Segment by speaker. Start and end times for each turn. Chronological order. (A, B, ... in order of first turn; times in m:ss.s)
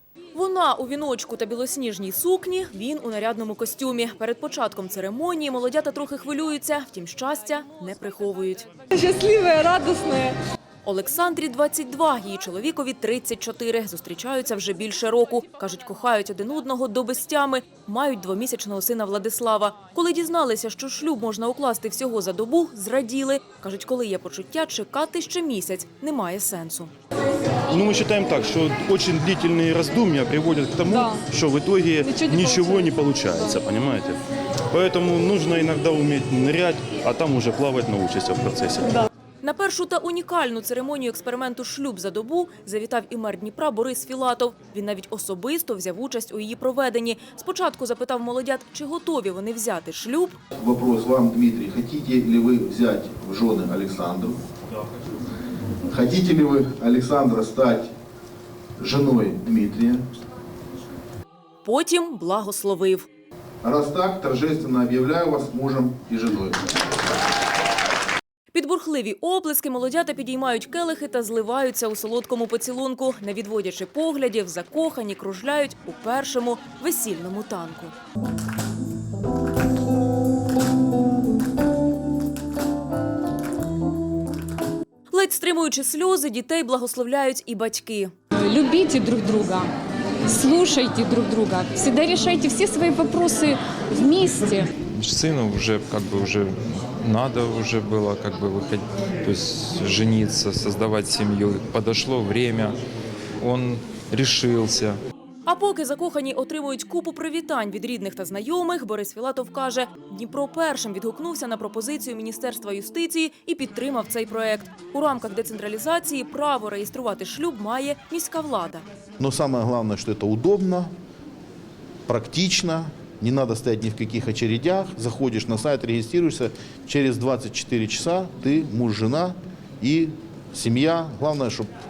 0:00.3-0:08.7 A
0:08.9-0:10.4 B
0:10.8-0:26.9 A
0:27.7-0:38.9 C
0:30.9-0:31.2 B
0:32.0-0:33.6 B
0:39.4-0:50.4 A
0:50.5-0:54.4 D
0:55.9-0:57.9 D
0:58.8-1:00.0 D
1:01.6-1:03.1 A
1:03.6-1:06.8 D
1:08.5-1:17.9 A
1:25.1-1:28.1 A
1:28.4-1:29.7 B
1:30.3-1:34.7 B
1:34.9-1:42.8 E
1:43.4-1:45.0 E
1:45.4-1:58.8 A
1:59.2-2:00.9 D
2:02.1-2:11.7 D